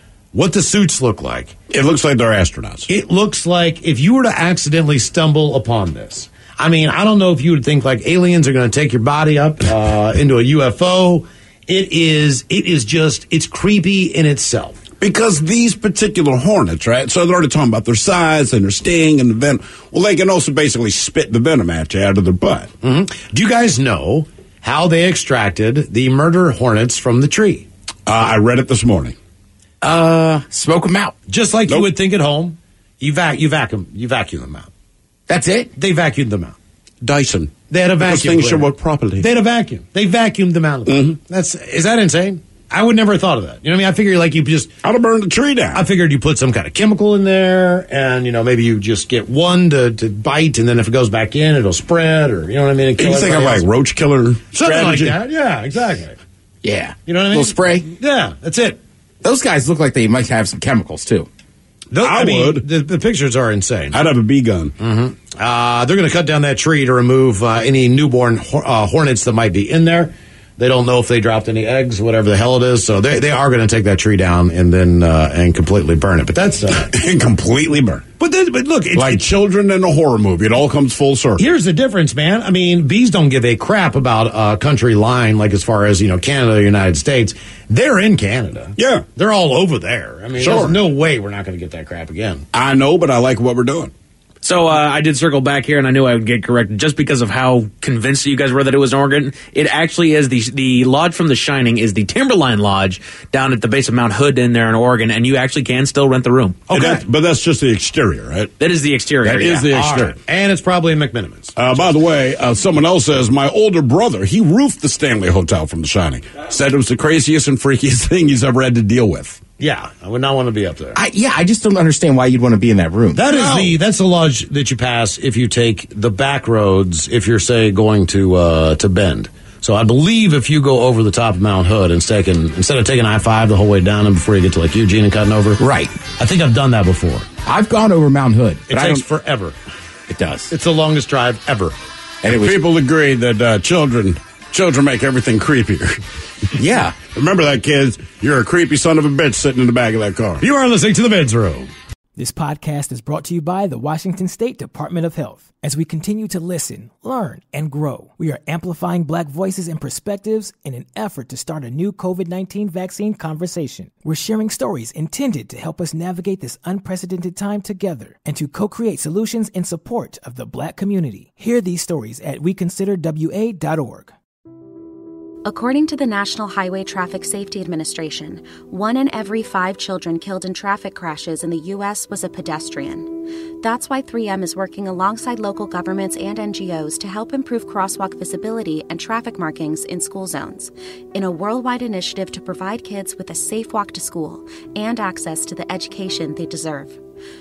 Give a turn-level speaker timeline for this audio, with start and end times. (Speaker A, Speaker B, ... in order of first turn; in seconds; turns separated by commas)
Speaker A: 0.3-1.5, Speaker B: 1.7-2.9, Speaker A: 2.9-14.8, Speaker B: 15.0-22.7, Speaker A: 22.8-27.7, Speaker B: 28.1-29.1, Speaker C: 29.8-31.1, Speaker A: 31.3-34.7, Speaker C: 35.3-35.7, Speaker A: 35.8-36.5, Speaker B: 37.0-39.3, Speaker A: 37.7-44.7, Speaker B: 40.9-41.2, Speaker B: 44.8-45.8, Speaker A: 45.7-53.6, Speaker B: 53.0-55.2, Speaker A: 54.5-56.2, Speaker C: 56.6-57.9, Speaker A: 57.0-58.8, Speaker C: 59.2-61.3, Speaker A: 61.9-64.0, Speaker B: 62.0-62.6, Speaker B: 63.9-64.7, Speaker A: 64.8-76.9, Speaker B: 76.8-78.0, Speaker A: 78.2-79.2, Speaker B: 78.9-81.4, Speaker A: 81.4-92.4, Speaker B: 88.8-89.0, Speaker B: 90.4-90.8, Speaker B: 92.5-93.9, Speaker D: 94.4-106.7, Speaker A: 106.7-107.0, Speaker B: 106.7-108.5, Speaker D: 108.6-109.7, Speaker B: 109.2-110.2, Speaker A: 109.7-112.0, Speaker B: 111.5-119.4, Speaker A: 119.6-121.0, Speaker C: 120.9-123.2, Speaker A: 123.1-135.6, Speaker B: 123.3-123.7, Speaker C: 135.6-135.9, Speaker A: 136.2-137.3, Speaker C: 137.4-139.1, Speaker A: 138.7-139.6, Speaker C: 140.1-140.5, Speaker A: 140.5-141.8, Speaker C: 142.2-142.6, Speaker B: 142.3-146.0, Speaker C: 146.6-147.0, Speaker B: 147.0-150.4, Speaker A: 150.4-151.7, Speaker E: 152.2-174.1, Speaker F: 175.4-197.0